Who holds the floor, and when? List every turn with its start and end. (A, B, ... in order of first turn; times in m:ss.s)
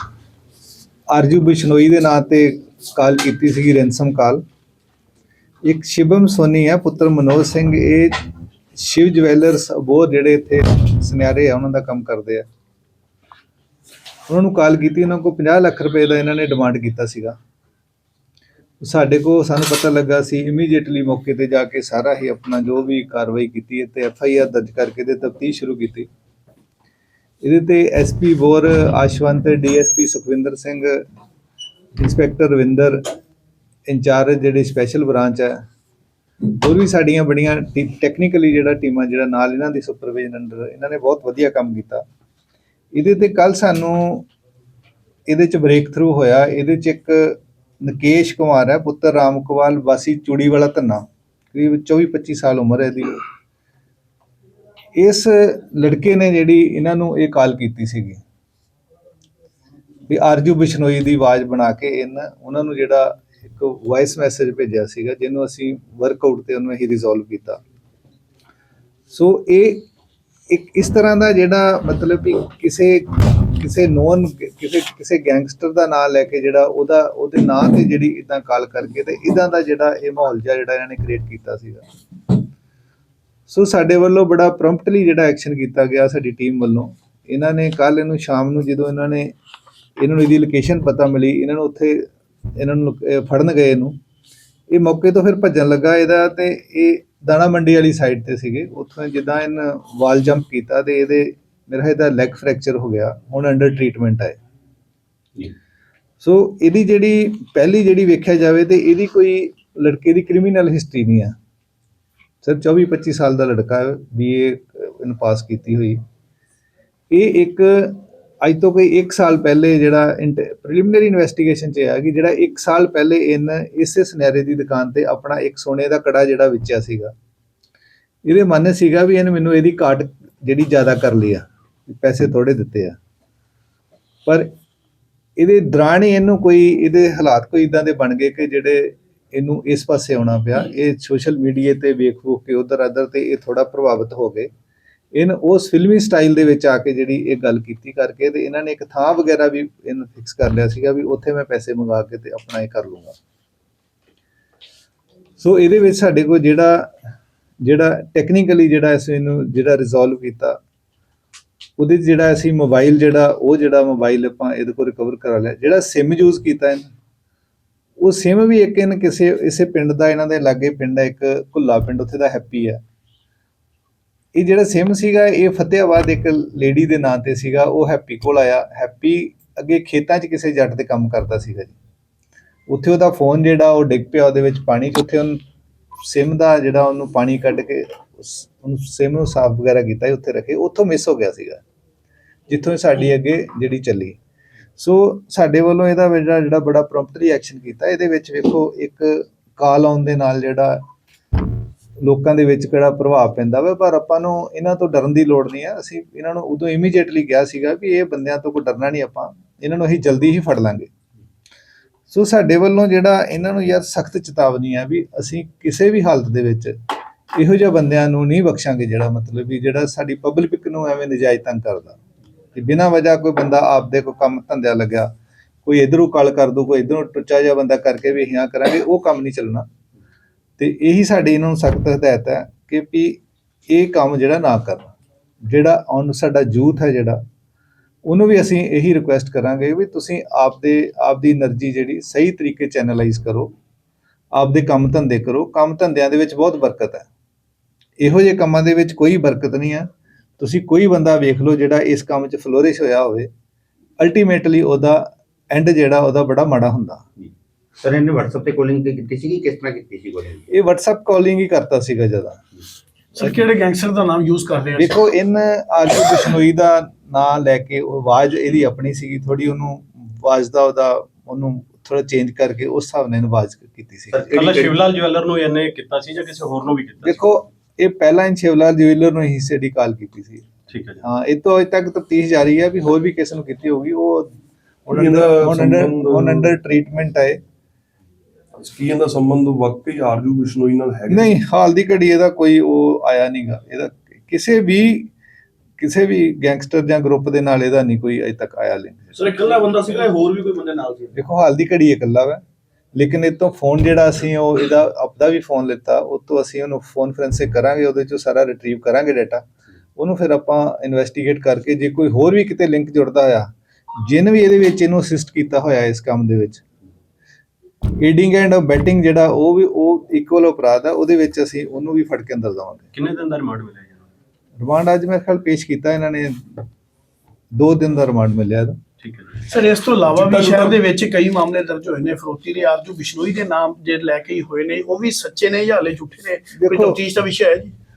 0:01.1-0:04.4 A
0:05.7-0:08.2 A
0:08.8-0:12.5 A
0:14.3-0:17.4 A
0:18.8-0:26.1 A
0:27.4-0:31.0 A
0:32.0-0:33.0 A
0:33.9-0:35.6 A
0:36.4-0:42.0 A
0:43.0-0:44.3 A
0:45.3-0:53.2 A
0:55.0-0:58.2 A
1:00.1-1:07.6 A
1:09.1-1:09.8 A
1:10.5-1:21.9 A
1:23.5-1:29.3 A
1:30.0-1:34.0 A
1:34.7-1:44.4 A
1:46.2-1:51.3 A
1:52.4-1:56.0 A
1:57.1-2:07.1 A
2:08.3-2:13.0 A
2:15.4-2:24.5 A
2:25.1-2:33.2 A
2:35.4-2:36.9 A
2:37.6-2:40.6 A
2:41.8-2:46.9 A
2:48.0-2:52.8 A
2:54.4-3:01.8 A
3:02.7-3:05.4 A
3:06.1-3:11.6 A
3:12.5-3:14.2 A
3:14.8-3:20.8 A
3:22.0-3:30.9 A
3:32.1-3:36.8 A
3:37.4-3:42.0 A
3:42.6-3:45.1 A
3:45.6-3:49.7 A
3:50.6-3:54.9 A
3:55.5-3:57.2 A
3:58.1-4:03.5 A
4:04.3-4:07.1 A
4:08.0-4:13.3 A
4:14.0-4:17.0 A
4:17.8-4:20.5 B
4:20.5-4:22.4 A
4:23.1-4:25.0 C
4:24.8-4:34.5 A
4:34.1-4:34.7 B
4:34.3-4:37.4 D
4:37.0-4:40.4 A
4:40.7-4:41.0 D
4:41.0-4:44.3 A
4:44.9-4:47.4 A
4:44.9-4:46.5 E
4:48.6-4:51.3 E
4:51.1-4:55.1 A
4:55.8-4:59.1 A
4:59.2-5:01.1 D
5:01.2-5:02.4 A
5:03.0-5:09.4 A
5:10.0-5:13.5 A
5:14.0-5:16.6 A
5:18.0-5:22.9 A
5:22.9-5:24.0 D
5:24.6-5:26.6 A
5:27.6-5:28.8 A
5:29.0-5:29.5 D
5:29.5-5:37.7 C
5:30.1-5:30.8 E
5:36.6-5:37.0 A